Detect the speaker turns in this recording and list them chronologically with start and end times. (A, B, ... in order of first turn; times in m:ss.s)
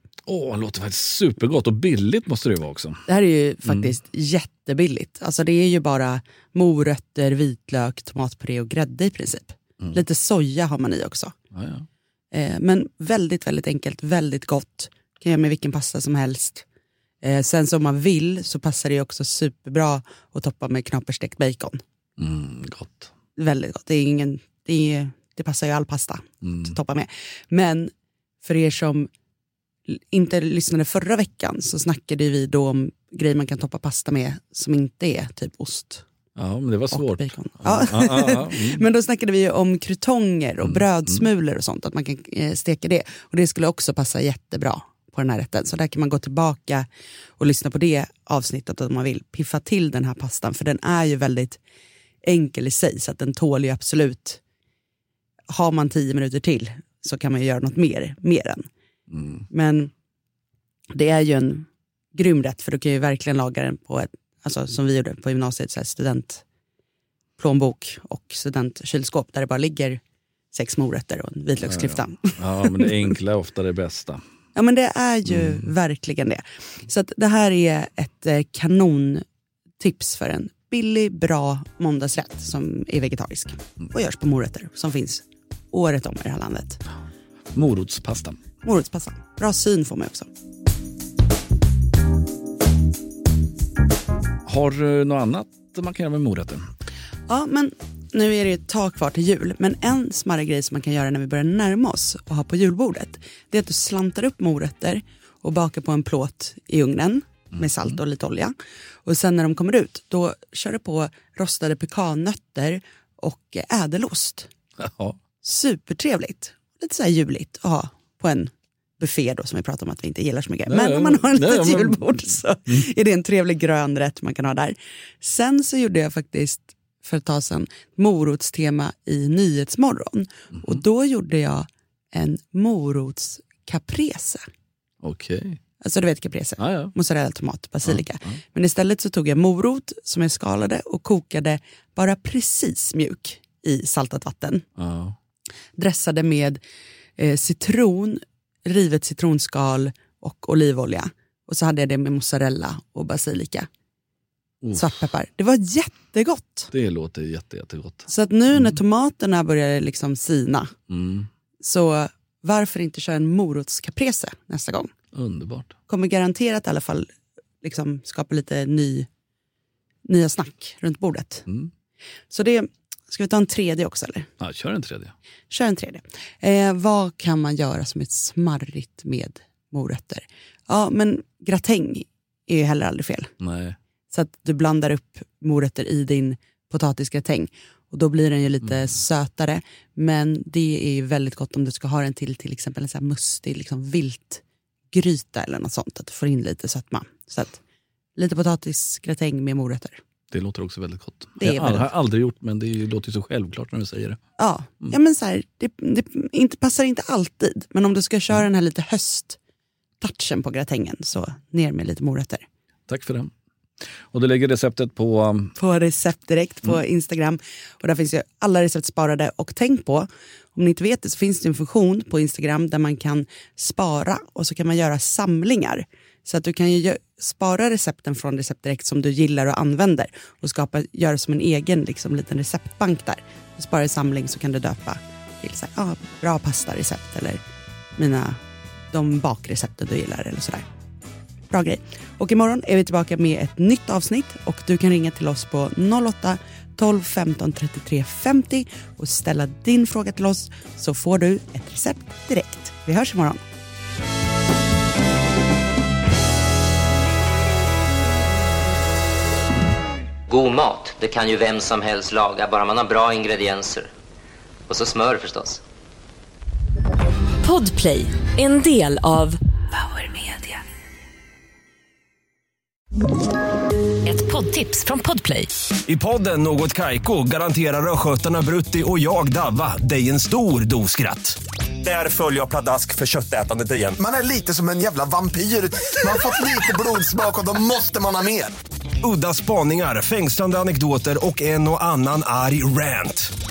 0:00.2-0:03.0 A
0:03.1-0:11.3 B
0:03.6-0:03.9 A
0:11.5-0:11.8 A
0:12.3-0:16.6 B
0:17.2-0:21.8 B
0:22.2-0:23.1 A
0:23.4-0:27.9 B
0:26.4-0:26.7 A
0:28.4-0:29.1 B
0:29.9-0:36.0 B
0:36.4-0:38.8 A
0:36.9-0:46.9 B
0:40.6-0:41.2 A
0:47.4-0:51.6 B
0:52.2-0:54.4 B
0:55.5-0:58.7 B
0:59.1-0:59.4 A
0:59.5-0:59.9 B
1:00.9-1:06.4 B
1:07.4-1:10.0 B
1:10.5-1:12.9 B
1:11.6-1:14.2 A
1:14.5-1:19.2 B
1:19.8-1:26.8 B
1:27.5-1:28.4 A
1:28.6-1:30.3 B
1:34.4-1:36.6 A
1:37.3-1:54.5 B
1:54.8-1:55.2 A
1:55.4-2:14.4 B
2:00.7-2:02.2 A
2:15.0-2:15.6 A
2:15.8-2:24.6 B
2:16.6-2:16.9 A
2:17.8-2:18.4 A
2:24.8-2:25.2 A
2:25.8-2:26.6 B
2:27.2-2:33.7 B
2:34.6-2:34.9 A
2:34.8-2:36.7 B
2:36.7-2:38.7 A
2:38.1-2:40.7 B
2:40.9-2:41.3 A
2:41.6-2:44.9 B
2:45.1-2:45.7 A
2:45.9-2:49.1 B
2:50.0-2:51.4 B
2:52.3-2:54.3 B
2:54.4-2:55.1 A
2:55.5-3:03.3 B
3:03.4-3:03.8 A
3:04.1-3:17.6 B
3:18.2-3:20.0 B
3:20.3-3:24.2 A
3:21.4-3:21.9 B
3:24.4-3:29.4 B
3:30.0-3:32.4 B
3:32.9-3:33.3 A
3:34.1-3:35.5 A
3:35.6-3:57.4 B
3:58.0-3:58.4 B
3:58.9-4:00.6 B
4:01.5-4:13.4 B
4:20.3-4:23.9 C
4:24.7-4:25.6 C
4:27.4-4:30.5 D
4:34.0-4:35.5 D
4:35.8-4:44.0 E
4:44.0-4:48.5 F
4:49.0-4:53.3 E